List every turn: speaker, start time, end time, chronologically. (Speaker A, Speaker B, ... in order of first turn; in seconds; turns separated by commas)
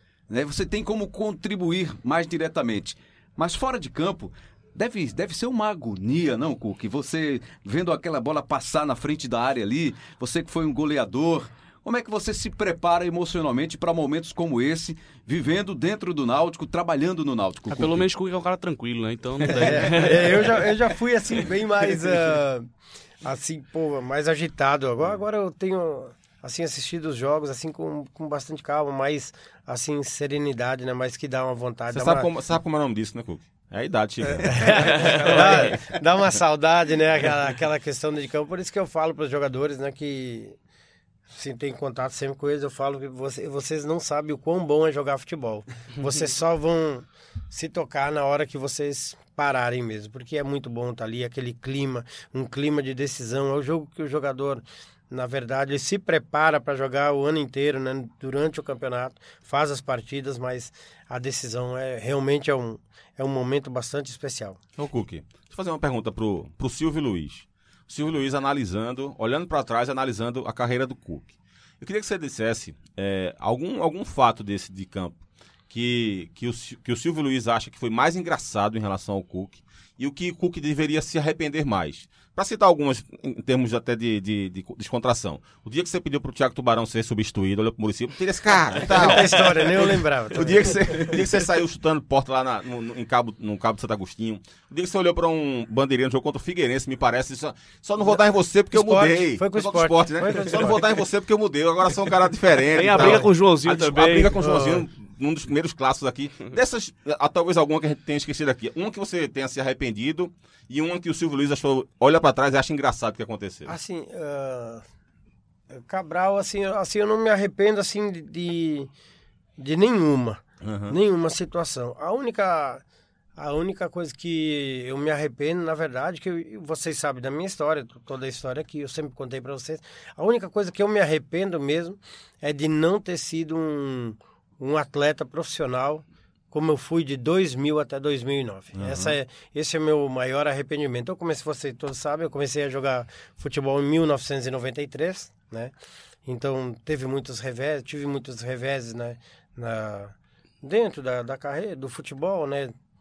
Speaker A: 0.3-18.0, Speaker B: 17.7-20.7, Speaker C: 19.5-22.7, Speaker C: 23.2-32.3, Speaker D: 31.9-35.6, Speaker C: 34.5-40.5, Speaker B: 35.1-35.4, Speaker C: 41.3-64.6, Speaker D: 64.8-113.7, Speaker C: 88.9-90.8, Speaker C: 98.7-100.8, Speaker B: 102.7-104.4, Speaker C: 104.4-104.8, Speaker C: 113.7-114.8, Speaker C: 115.7-118.9, Speaker C: 119.6-122.8, Speaker D: 120.6-121.0, Speaker C: 123.3-145.7, Speaker D: 138.7-139.2, Speaker C: 146.2-152.7